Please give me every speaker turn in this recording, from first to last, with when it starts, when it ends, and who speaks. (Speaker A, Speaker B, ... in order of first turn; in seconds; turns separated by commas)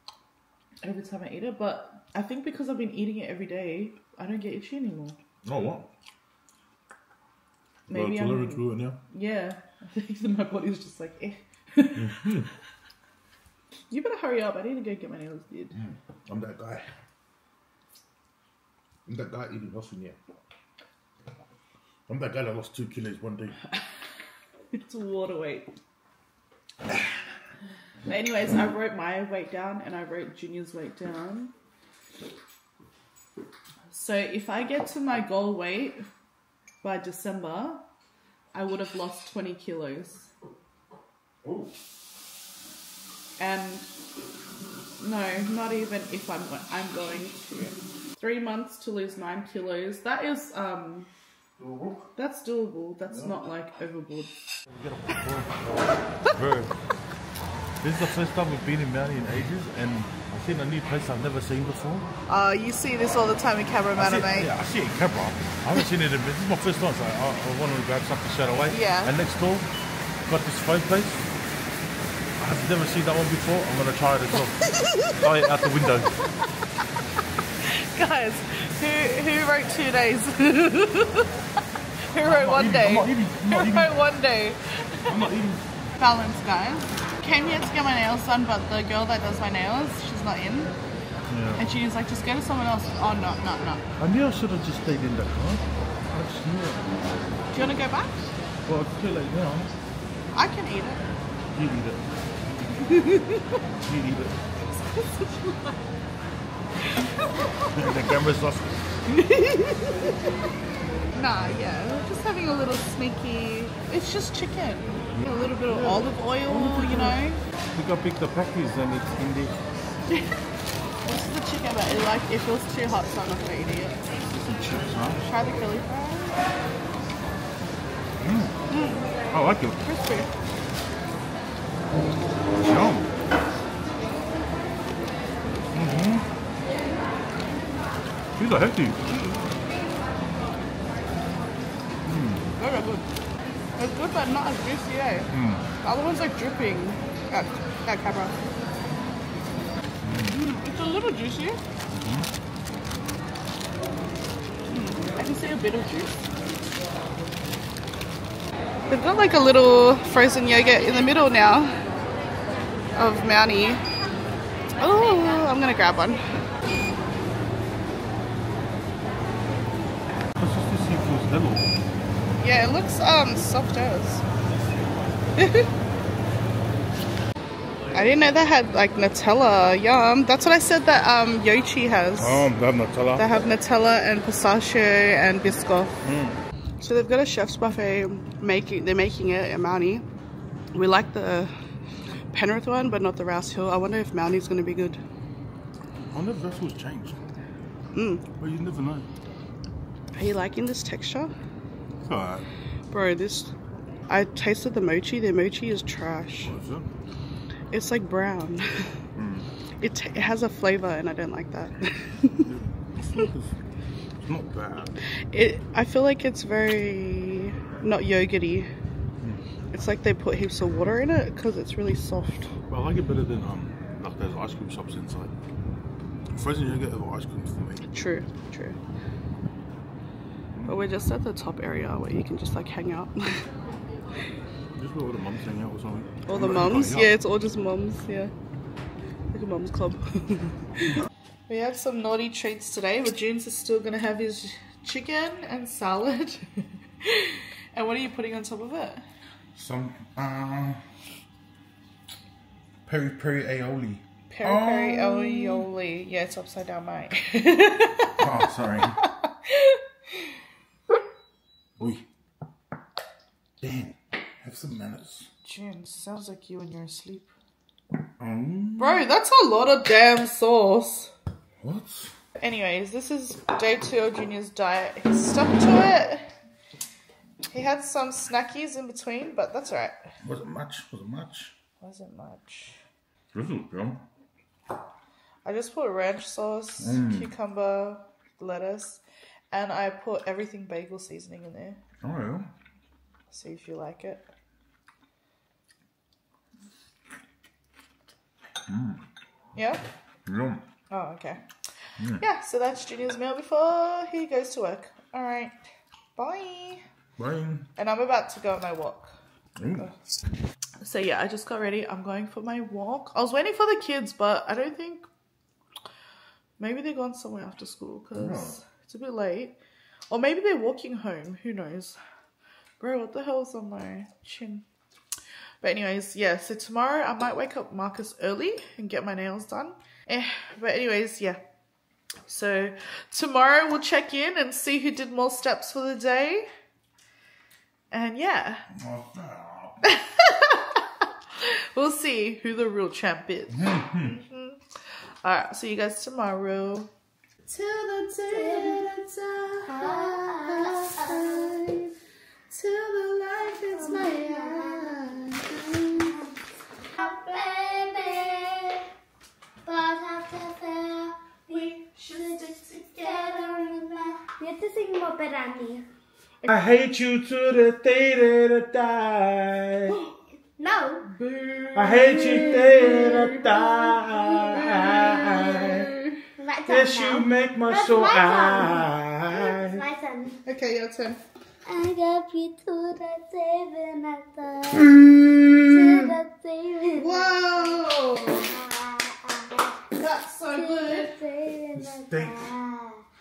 Speaker A: 0.8-5.2, Speaker B: 5.4-5.9, Speaker A: 7.9-12.3, Speaker B: 7.9-9.0, Speaker B: 11.9-12.5, Speaker A: 13.9-15.8, Speaker B: 15.7-16.9, Speaker B: 19.1-20.2, Speaker B: 22.1-23.6, Speaker A: 24.7-25.7, Speaker A: 28.1-31.5, Speaker A: 33.9-36.1, Speaker A: 36.8-37.9, Speaker A: 38.5-40.3, Speaker B: 41.4-41.7, Speaker A: 43.4-43.9, Speaker A: 45.0-51.1, Speaker B: 51.6-52.1, Speaker A: 52.2-54.3, Speaker B: 53.1-53.4, Speaker B: 54.7-56.8, Speaker B: 57.8-62.1, Speaker A: 62.3-64.5, Speaker B: 64.0-69.7, Speaker A: 68.7-69.2, Speaker B: 70.3-71.3, Speaker B: 72.4-76.1, Speaker A: 77.7-81.3, Speaker A: 82.1-85.1, Speaker B: 82.2-84.0, Speaker B: 85.1-85.7, Speaker A: 86.0-90.7, Speaker B: 91.3-91.6, Speaker A: 91.6-93.8, Speaker B: 94.0-97.2, Speaker A: 97.5-98.2, Speaker B: 98.7-99.7, Speaker A: 100.3-101.1, Speaker B: 101.5-102.1, Speaker A: 102.8-103.6, Speaker B: 103.8-104.4, Speaker A: 104.7-105.8, Speaker A: 106.8-107.5, Speaker B: 107.7-108.8, Speaker A: 109.1-110.2, Speaker A: 111.2-117.4, Speaker B: 115.1-117.2, Speaker B: 117.7-119.6, Speaker A: 121.0-124.0, Speaker B: 124.3-125.3, Speaker A: 125.2-126.4, Speaker B: 128.2-128.6, Speaker A: 128.7-129.1, Speaker B: 129.3-129.8, Speaker A: 129.8-130.3, Speaker B: 132.6-133.1, Speaker B: 135.7-136.2, Speaker B: 138.4-139.0, Speaker A: 139.1-139.4, Speaker B: 142.0-142.5, Speaker A: 142.6-143.1, Speaker A: 143.8-145.3, Speaker B: 145.3-145.7, Speaker A: 145.8-148.4, Speaker B: 150.0-150.4, Speaker A: 150.3-151.6, Speaker B: 151.9-152.3, Speaker A: 154.7-156.1, Speaker A: 158.9-161.8, Speaker A: 163.0-163.8, Speaker A: 164.8-166.2, Speaker B: 170.4-171.8, Speaker A: 172.4-174.2, Speaker A: 175.4-175.7, Speaker A: 177.9-182.5, Speaker B: 182.2-183.5, Speaker A: 183.2-185.9, Speaker B: 186.0-186.4, Speaker A: 186.8-190.0, Speaker A: 190.7-191.5, Speaker A: 192.3-195.0, Speaker B: 196.1-197.2, Speaker A: 197.9-198.2, Speaker B: 198.4-199.1, Speaker A: 200.2-201.3, Speaker B: 202.0-202.5, Speaker A: 202.9-203.5, Speaker A: 204.1-206.5, Speaker B: 206.4-206.9, Speaker A: 207.7-208.7, Speaker B: 209.2-209.5, Speaker A: 209.8-212.5, Speaker B: 212.4-213.6, Speaker B: 214.2-215.0, Speaker A: 215.3-218.7, Speaker A: 219.7-222.5, Speaker B: 222.7-225.3, Speaker B: 226.3-227.9, Speaker A: 227.9-228.8, Speaker B: 230.6-230.8, Speaker A: 230.7-233.4, Speaker B: 234.8-237.1, Speaker A: 236.3-238.3, Speaker A: 239.3-240.9, Speaker A: 241.5-249.0, Speaker B: 249.6-250.8, Speaker B: 252.9-255.7, Speaker A: 254.3-258.1, Speaker B: 258.2-259.0, Speaker A: 259.5-259.8, Speaker B: 261.8-262.0, Speaker B: 263.6-265.3, Speaker A: 265.4-267.3, Speaker B: 268.2-269.1, Speaker A: 268.8-271.1, Speaker B: 271.6-272.1, Speaker A: 272.4-276.3, Speaker A: 277.5-280.0, Speaker B: 280.2-281.5, Speaker A: 281.8-282.8, Speaker B: 283.3-284.0, Speaker A: 285.4-291.8, Speaker B: 286.8-287.3, Speaker B: 292.0-292.5, Speaker A: 293.3-294.3, Speaker B: 298.7-299.0, Speaker A: 299.6-299.8, Speaker B: 300.3-300.6, Speaker A: 300.9-301.4, Speaker A: 302.2-305.5, Speaker A: 306.2-306.8, Speaker B: 307.2-307.7, Speaker A: 307.8-309.1, Speaker B: 309.6-309.9, Speaker A: 310.8-315.1, Speaker A: 316.6-319.6, Speaker B: 318.1-318.6, Speaker A: 320.1-322.0, Speaker A: 322.8-324.6, Speaker A: 325.6-331.4, Speaker A: 332.3-336.5, Speaker A: 337.9-338.6, Speaker B: 338.8-339.8, Speaker A: 339.8-340.8, Speaker A: 341.4-344.6, Speaker B: 343.5-344.2, Speaker A: 345.2-346.9, Speaker A: 347.5-351.9, Speaker C: 348.3-348.9, Speaker C: 349.7-351.6, Speaker A: 352.5-356.2, Speaker C: 353.5-355.3, Speaker C: 355.9-356.3, Speaker C: 356.9-358.9, Speaker C: 359.6-365.9, Speaker A: 361.5-363.9, Speaker B: 366.5-370.0, Speaker C: 370.6-371.1, Speaker A: 371.1-373.5, Speaker B: 371.8-375.9, Speaker A: 374.5-376.0, Speaker C: 376.4-380.4, Speaker B: 376.7-379.8, Speaker A: 380.5-381.2, Speaker C: 381.7-385.0, Speaker B: 384.7-386.1, Speaker C: 385.6-389.8, Speaker A: 387.0-388.5, Speaker A: 389.9-391.1, Speaker C: 390.5-393.0, Speaker B: 391.8-392.5